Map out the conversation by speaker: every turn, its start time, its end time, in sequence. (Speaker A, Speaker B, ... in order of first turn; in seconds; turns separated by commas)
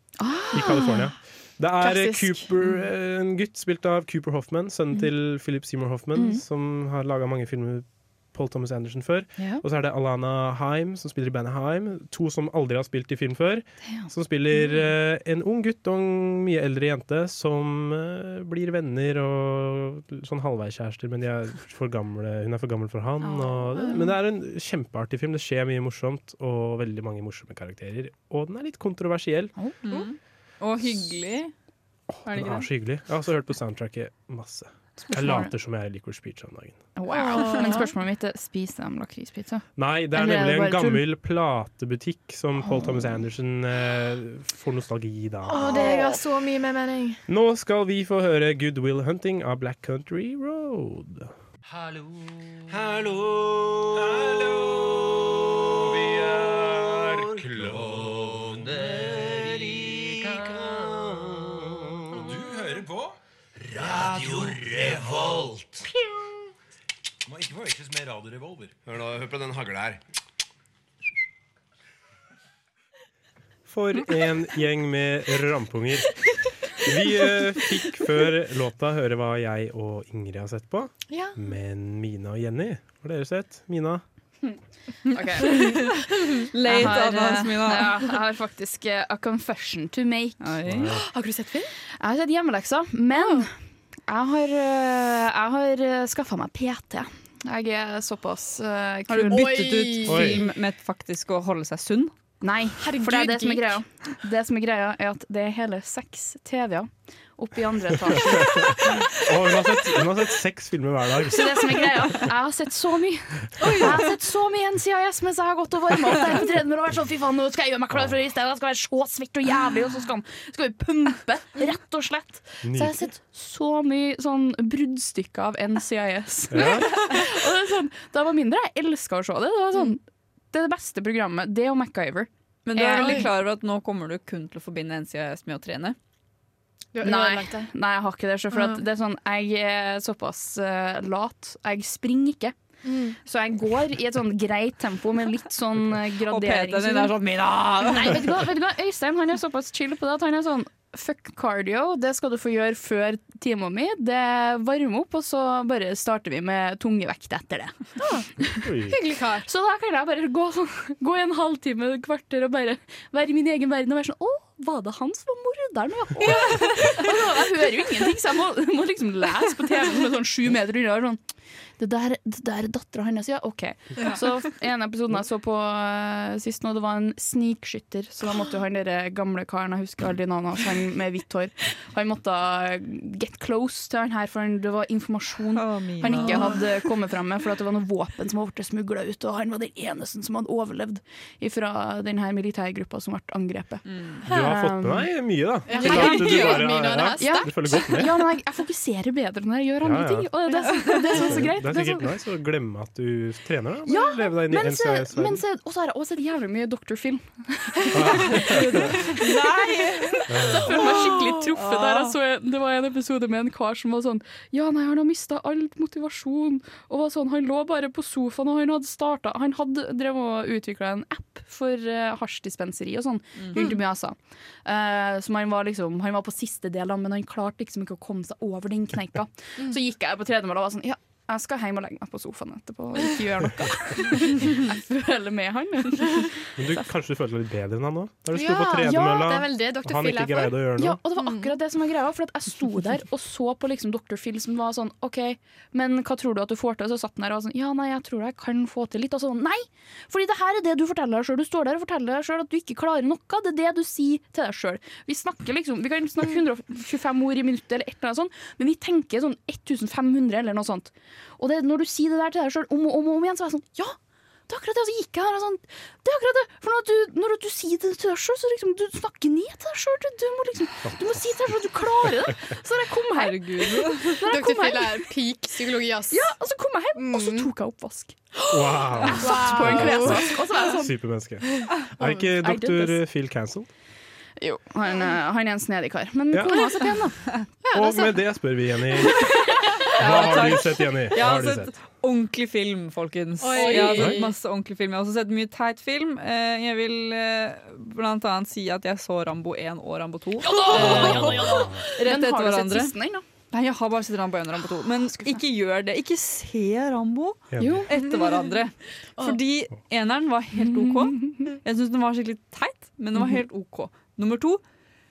Speaker A: 0.2-1.1, Speaker B: 0.5-29.5, Speaker A: 6.1-6.4, Speaker A: 9.4-9.6, Speaker A: 13.9-14.9, Speaker A: 23.2-24.0, Speaker C: 23.8-24.1, Speaker D: 29.8-31.5, Speaker B: 32.1-36.8, Speaker A: 32.3-32.6, Speaker A: 35.1-35.5, Speaker A: 37.0-41.0, Speaker C: 37.1-37.9, Speaker B: 39.8-45.9, Speaker A: 42.6-43.0, Speaker C: 45.5-47.2, Speaker A: 45.6-46.2, Speaker B: 47.3-51.3, Speaker E: 51.7-52.0, Speaker E: 52.7-61.4, Speaker E: 62.1-63.1, Speaker E: 63.7-65.8, Speaker E: 67.3-70.0, Speaker B: 73.7-76.1, Speaker B: 76.8-84.0, Speaker C: 81.1-81.5, Speaker D: 85.1-86.0, Speaker A: 85.1-86.0, Speaker C: 85.4-86.0, Speaker D: 86.5-88.0, Speaker A: 86.6-90.5, Speaker D: 90.4-90.9, Speaker B: 90.7-91.0, Speaker C: 90.9-91.7, Speaker A: 92.0-93.5, Speaker C: 93.1-93.5, Speaker A: 94.1-99.8, Speaker D: 99.1-102.1, Speaker C: 99.2-100.4, Speaker B: 100.1-100.4, Speaker A: 102.4-109.1, Speaker C: 102.8-103.8, Speaker B: 109.2-111.9, Speaker A: 111.2-130.0, Speaker C: 113.6-114.1, Speaker B: 122.6-123.1, Speaker B: 126.5-127.0, Speaker A: 130.5-133.3, Speaker D: 132.7-135.9, Speaker C: 133.0-133.3, Speaker C: 136.9-137.7, Speaker A: 137.0-142.6, Speaker C: 138.5-138.8, Speaker C: 142.8-143.2, Speaker A: 143.2-147.2, Speaker D: 146.2-148.3, Speaker A: 147.8-157.8, Speaker C: 158.0-158.3, Speaker A: 158.4-158.7, Speaker B: 158.6-159.0, Speaker C: 158.8-159.5, Speaker A: 159.4-171.2, Speaker C: 166.2-167.0, Speaker A: 171.8-195.1, Speaker D: 185.6-186.6, Speaker C: 186.0-186.6, Speaker D: 193.9-194.2, Speaker B: 194.3-198.3, Speaker C: 195.7-197.8, Speaker A: 195.7-196.6, Speaker D: 195.8-196.7, Speaker A: 197.2-202.1, Speaker B: 199.8-200.3, Speaker B: 201.1-205.4, Speaker A: 203.8-209.5, Speaker B: 207.9-208.9, Speaker D: 208.3-210.3, Speaker A: 210.1-236.8, Speaker B: 210.3-210.8, Speaker C: 210.5-211.4, Speaker D: 211.5-212.1, Speaker D: 223.4-223.7, Speaker B: 236.6-241.0, Speaker C: 238.3-241.6, Speaker A: 238.4-239.2, Speaker A: 240.8-263.9, Speaker A: 264.5-275.1, Speaker B: 270.8-271.2, Speaker D: 273.1-274.2, Speaker C: 274.2-276.3, Speaker A: 276.1-278.2, Speaker C: 276.9-277.5, Speaker C: 278.4-280.7, Speaker B: 278.5-283.7, Speaker A: 279.1-280.9, Speaker C: 281.6-282.3, Speaker A: 282.4-283.0, Speaker A: 284.4-287.2, Speaker B: 286.3-286.7, Speaker C: 287.6-288.2, Speaker B: 287.7-289.3, Speaker B: 289.9-291.7, Speaker D: 289.9-302.9, Speaker C: 293.4-294.3, Speaker A: 293.6-293.9, Speaker B: 293.8-294.2, Speaker C: 300.4-301.8, Speaker A: 300.4-303.2, Speaker B: 300.7-301.8, Speaker D: 303.5-314.6, Speaker B: 307.5-307.9, Speaker A: 307.6-307.9, Speaker C: 308.0-308.5, Speaker A: 310.6-311.6